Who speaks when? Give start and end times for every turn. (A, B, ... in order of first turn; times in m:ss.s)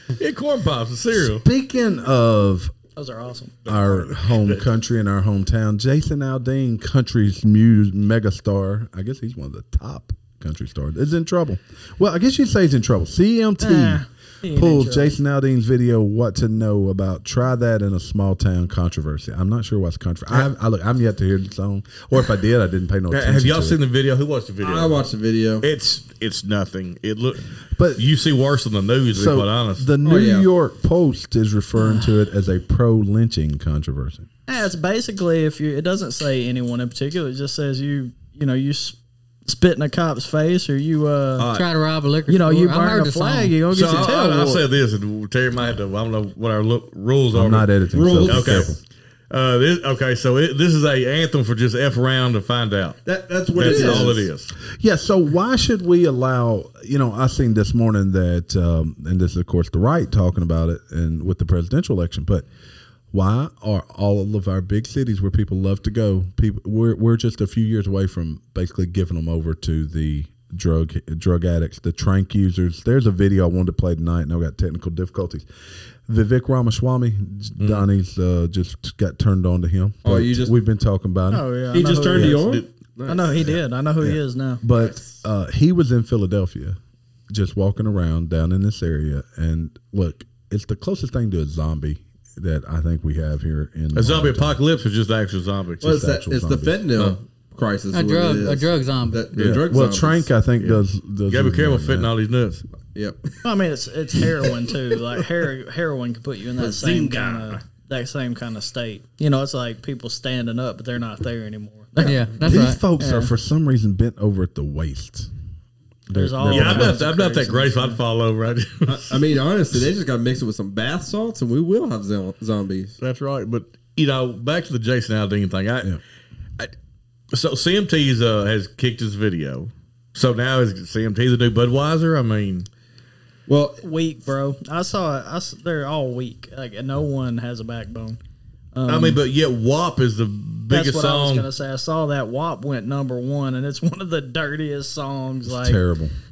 0:00.2-0:01.4 A
0:01.2-0:02.7 B
0:03.0-0:03.6 C
0:03.6-0:23.8 B
0:03.7-0:04.6 A
0:13.6-0:15.1 C
0:23.1-0:25.0 A
0:24.6-0:25.7 D
0:25.6-0:29.9 A
0:27.8-0:28.0 B
0:29.1-0:34.3 B
0:30.0-0:30.5 D
0:34.5-0:41.5 C
0:41.4-0:41.7 A
0:41.5-0:43.6 E
0:42.3-0:44.6 C
0:43.7-0:47.7 A
0:47.3-0:48.8 B
0:47.9-0:48.7 D
0:48.2-0:48.8 A
0:49.3-0:53.0 A
0:53.0-0:54.3 D
0:53.6-0:54.5 A
0:53.6-0:54.1 C
0:54.8-1:02.5 B
1:03.1-1:15.5 B
1:16.1-1:21.5 B
1:17.6-1:17.8 A
1:20.0-1:20.6 D
1:21.3-1:24.6 C
1:21.7-1:23.4 D
1:22.1-1:22.4 B
1:22.4-1:22.7 A
1:23.4-1:26.8 B
1:24.8-1:25.1 D
1:27.3-1:34.6 B
1:33.9-1:35.9 A
1:35.8-1:36.9 B
1:35.8-1:40.3 D
1:37.9-1:39.3 E
1:39.4-1:39.6 A
1:39.4-1:42.1 B
1:40.6-1:42.6 A
1:42.9-1:43.2 D
1:43.4-1:53.3 C
1:46.6-1:47.6 D
1:52.0-1:52.8 E
1:52.4-1:55.3 B
1:56.1-1:57.0 B
1:56.1-1:58.0 C
1:56.5-1:59.2 A
1:58.8-2:03.0 D
2:03.0-2:06.0 A
2:07.3-2:12.7 A
2:13.5-2:13.8 D
2:13.8-2:18.2 C
2:18.7-2:19.2 C
2:18.9-2:21.5 A
2:20.7-2:25.8 C
2:25.5-2:26.1 B